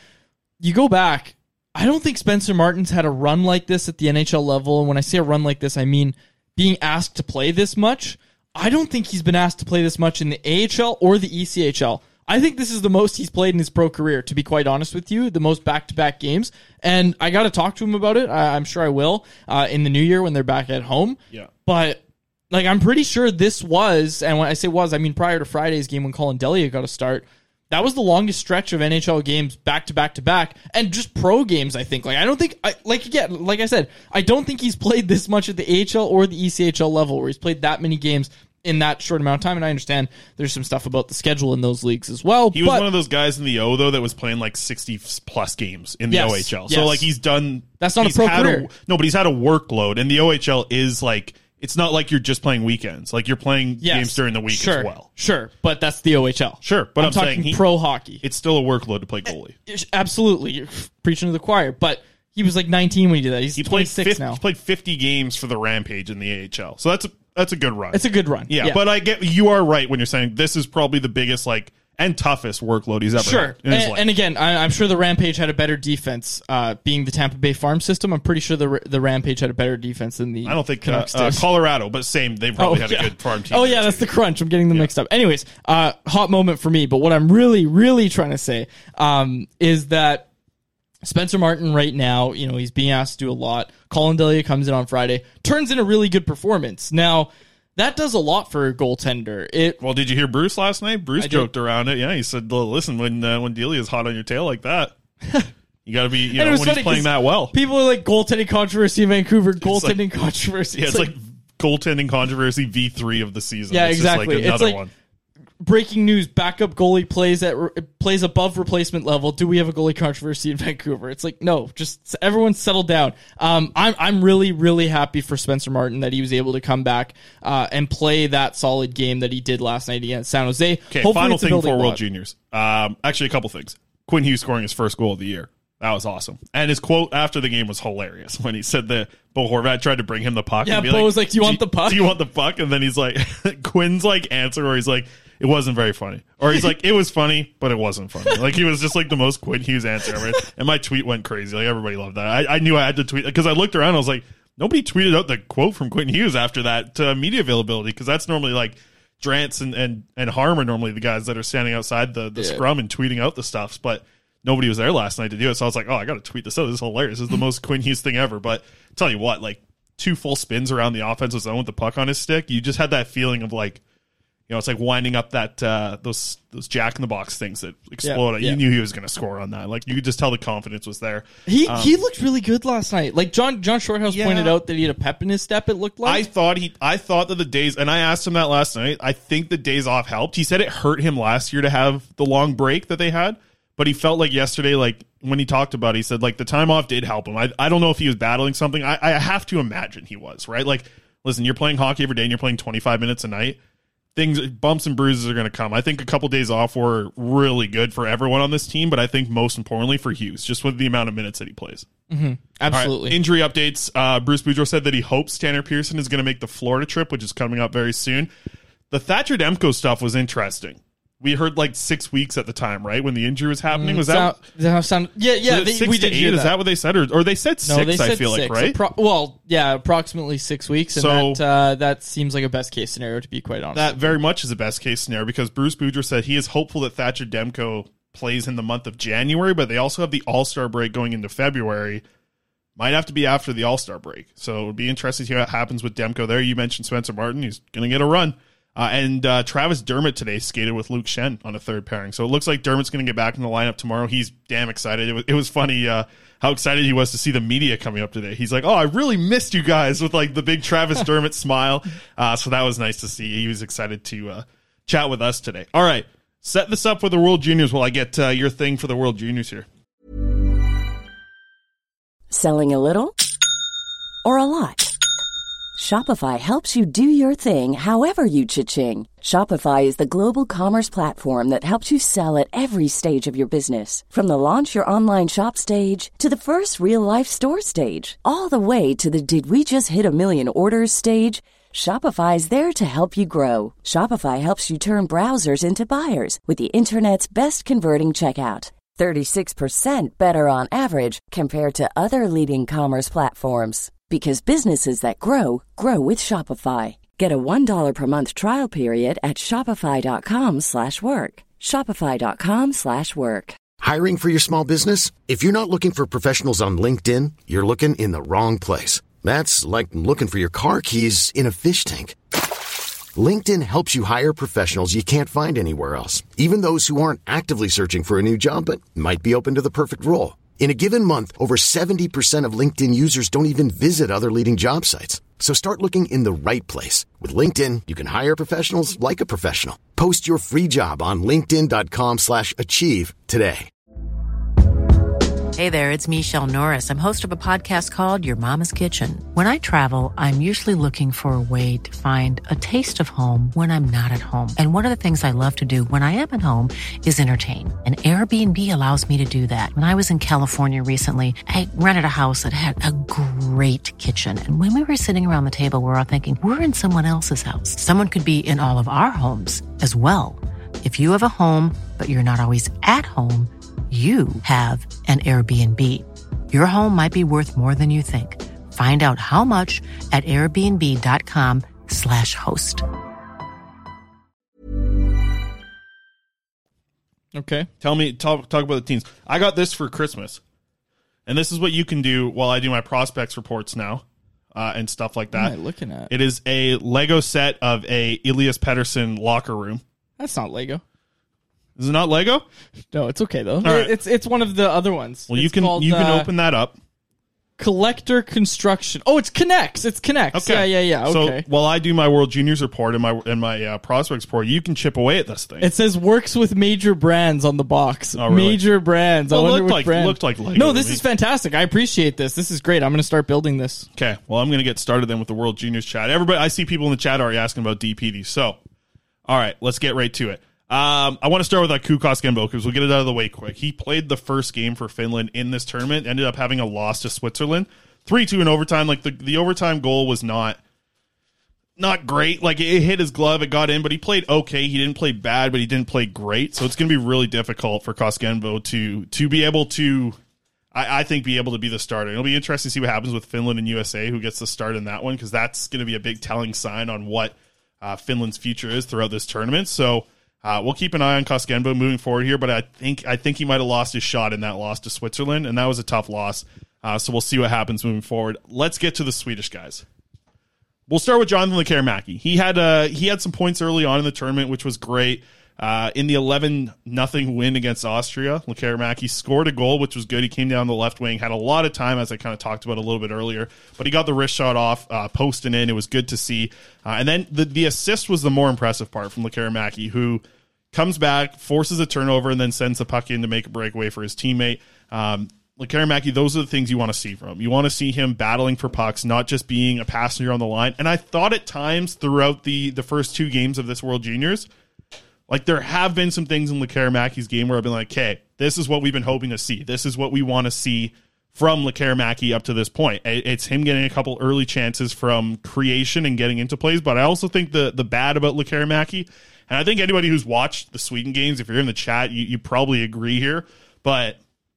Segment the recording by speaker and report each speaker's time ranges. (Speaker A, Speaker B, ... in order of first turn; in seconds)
Speaker A: 0.6-42.9, 46.1-47.1, 47.8-48.7, 53.8-58.2, 59.7-64.4, 67.9-68.8, 73.2-81.5, 82.6-90.3, 91.0-99.8, 101.2-101.5, 106.4-111.1, 113.7-114.8, 115.6-132.0, 140.7-142.1, 162.4-162.6, 178.0-178.6, 181.5-186.2, 212.1-213.2, 223.7-226.5, 227.7-234.1, 387.4-387.7, 395.3-396.1, 400.2-400.8, 402.9-406.3, 407.6-411.4, 415.6-423.9
Speaker B: 42.5-55.1, 56.6-57.6, 58.2-59.6, 63.6-74.0, 80.5-84.1, 99.8-105.0, 105.9-107.5, 109.6-110.0, 110.8-114.9, 130.9-173.8, 174.5-181.9, 184.1-184.6, 186.1-203.6, 204.2-211.9, 212.7-218.3, 218.9-224.4, 225.5-228.8, 230.9-231.4, 233.8-242.0, 242.8-269.7, 387.8-390.4, 391.3-395.5, 396.1-399.8, 401.8-402.4, 403.6-403.9, 405.3-406.8, 410.3-415.7, 418.2-418.6, 419.3-421.0, 424.0-428.6, 429.3-440.6, 441.8-450.2, 450.7-469.9, 470.9-504.5, 505.3-524.2
Speaker C: 272.3-273.2, 274.2-274.9, 275.8-313.6
Speaker D: 313.8-322.2, 323.1-343.7
Speaker E: 345.6-382.8